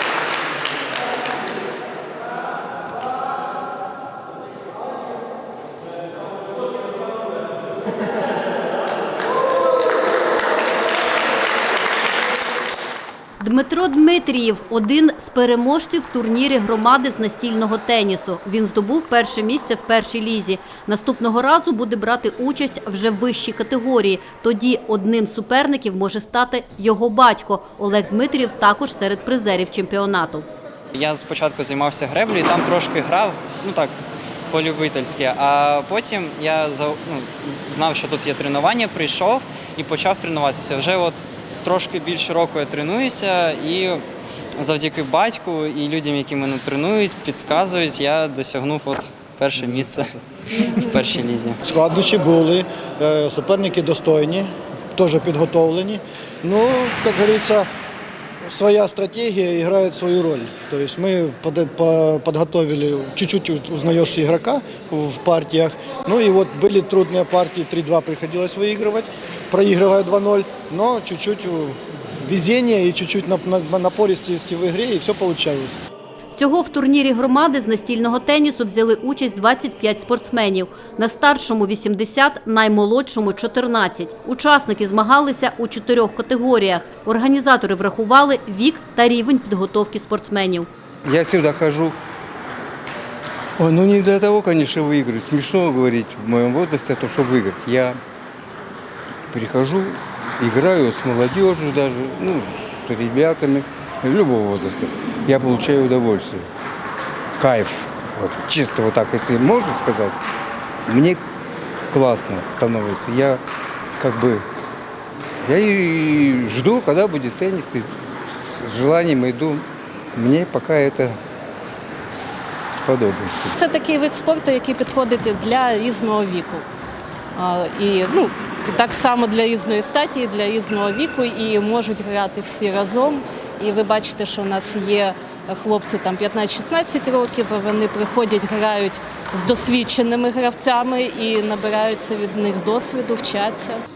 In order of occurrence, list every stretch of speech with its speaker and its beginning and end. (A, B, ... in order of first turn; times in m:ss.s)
0:13.4-0:30.4 A
0:30.9-0:33.9 B
0:34.5-0:44.0 B
0:44.6-0:51.6 B
0:51.6-0:57.7 C
0:58.4-1:15.8 C
1:16.3-1:30.7 A
1:31.0-1:31.9 D
1:33.6-1:38.0 D
1:39.3-1:46.5 D
1:47.4-1:50.2 D
1:50.8-1:51.2 D
1:51.9-1:53.4 D
1:54.0-1:54.4 D
1:55.4-2:01.2 D
2:02.7-2:03.5 D
2:03.5-2:06.6 E
2:07.4-2:23.8 E